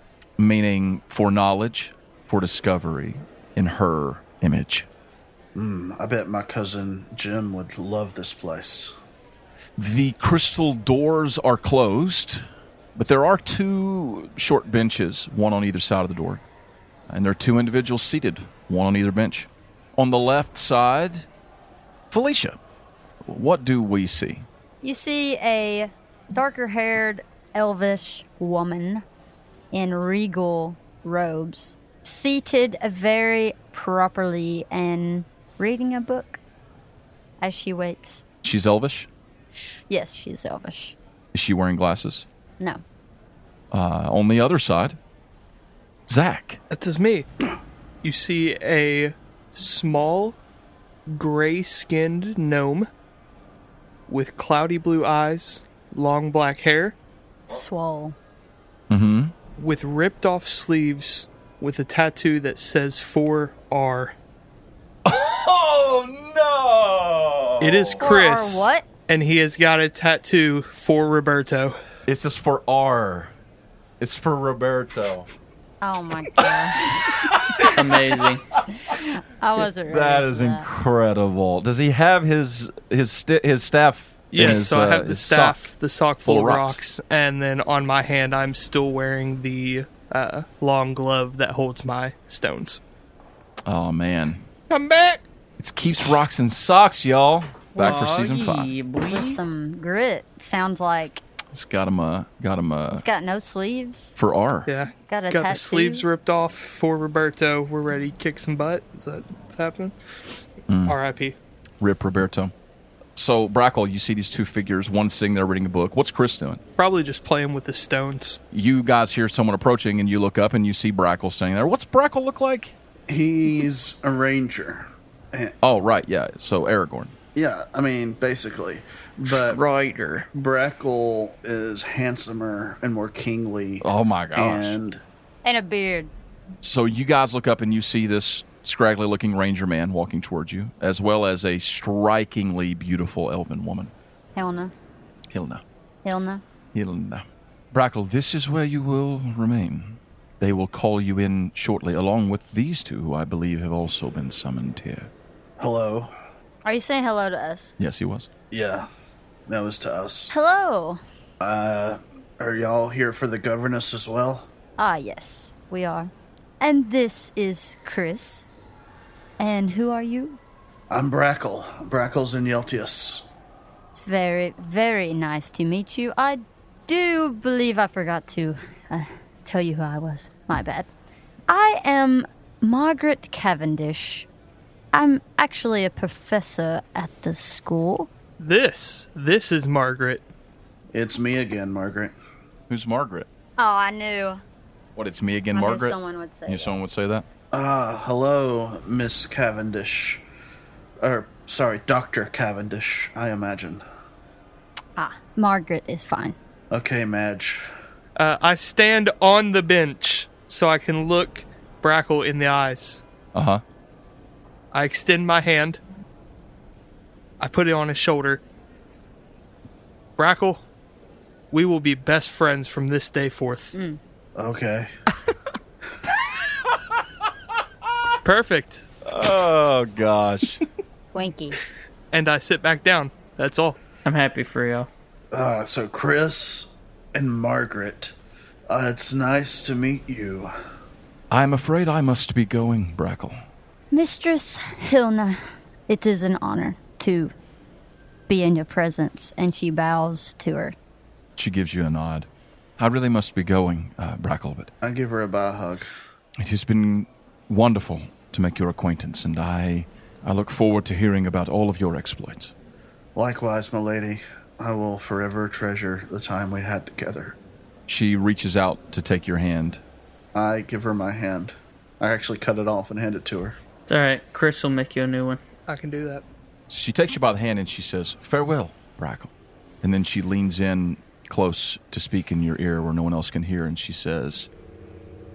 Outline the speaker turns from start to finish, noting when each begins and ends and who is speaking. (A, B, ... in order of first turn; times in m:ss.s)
0:00.4-0:04.9 A
0:05.5-0:08.9 B
0:09.8-0:12.4 A
0:12.9-0:16.4 A
0:17.1-0:21.3 A
0:22.1-0:22.6 A
0:23.3-0:24.4 A
0:24.8-0:29.0 C
0:29.7-0:36.4 C
0:37.4-0:38.2 C
0:38.4-0:39.1 A
0:39.9-0:41.0 C
0:41.3-0:42.3 A
0:43.7-0:45.0 A
0:46.1-0:46.6 A
0:46.7-0:47.2 D
0:48.0-0:50.4 D
0:51.1-0:52.9 D
0:54.1-0:57.0 D
0:57.5-0:58.1 C
0:58.9-0:59.3 A
0:59.6-1:04.1 D
1:05.0-1:08.0 A
1:07.6-1:11.8 D
1:08.0-1:08.9 C
1:12.1-1:13.3 A
1:14.0-1:15.3 A
1:15.8-1:17.1 C
1:16.4-1:18.0 A
1:17.7-1:18.4 E
1:18.8-1:20.6 C
1:19.6-1:25.6 A
1:24.3-1:32.8 D
1:26.2-1:26.8 A
1:33.6-1:34.5 A
1:34.7-1:35.2 D
1:35.6-1:38.7 A
1:37.7-1:39.4 E
1:39.1-1:41.2 C
1:41.5-1:43.0 A
1:42.9-1:44.2 C
1:44.2-1:44.7 A
1:44.6-1:50.3 D
1:45.1-1:46.0 C
1:50.7-1:51.0 A
1:50.8-1:51.4 D
1:51.8-1:52.5 A
1:53.2-1:56.6 A
1:56.8-1:58.4 D
1:58.5-2:02.7 A
2:03.1-2:05.5 B
2:05.6-2:07.1 A
2:07.3-2:09.6 B
2:09.2-2:10.3 E
2:10.3-2:15.0 B
2:13.8-2:14.8 A
2:15.4-2:16.1 C
2:16.6-2:23.9 A
2:24.4-2:24.7 C
2:25.3-2:25.6 A
2:26.0-2:26.4 C
2:26.7-2:35.1 A
2:35.6-2:36.1 B
2:36.6-2:37.7 C
2:37.8-2:38.3 A
2:38.5-2:38.9 B
2:39.5-2:40.3 B
2:40.3-2:41.0 C
2:41.4-2:44.5 B
2:44.8-2:48.4 C
2:49.4-2:50.4 C
2:50.9-2:53.3 B
2:53.9-3:00.9 C
3:01.5-3:04.3 C
3:04.9-3:08.1 C
3:08.4-3:10.2 D
3:10.9-3:12.1 B
3:12.7-3:13.3 A
3:13.6-3:14.4 C
3:15.0-3:17.2 A
3:15.5-3:16.8 C
3:17.5-3:20.2 B
3:21.0-3:23.8 B
3:25.0-3:26.4 C
3:26.7-3:27.7 B
3:28.2-3:33.0 D
3:33.3-3:33.6 A
3:34.7-3:35.8 D
3:37.4-3:38.4 D
3:40.2-3:40.6 D
3:41.5-3:43.8 D
3:43.7-3:44.0 C
3:44.4-3:44.9 B
3:48.2-3:48.8 D
3:49.0-3:50.6 A
3:51.1-3:51.6 C
3:52.1-3:53.8 D
3:54.0-3:54.9 E
3:55.3-3:58.2 B
3:58.7-4:00.5 B
4:01.3-4:03.4 A
4:03.9-4:07.3 C
4:08.3-4:10.7 C
4:11.4-4:12.3 A
4:12.8-4:14.7 A
4:14.8-4:15.9 B
4:16.4-4:22.5 A
4:23.2-4:27.4 B
4:27.9-4:29.8 A
4:30.3-4:33.6 B
4:33.9-4:35.4 E
4:35.7-4:36.2 D
4:36.7-4:39.3 A
4:39.8-4:44.5 A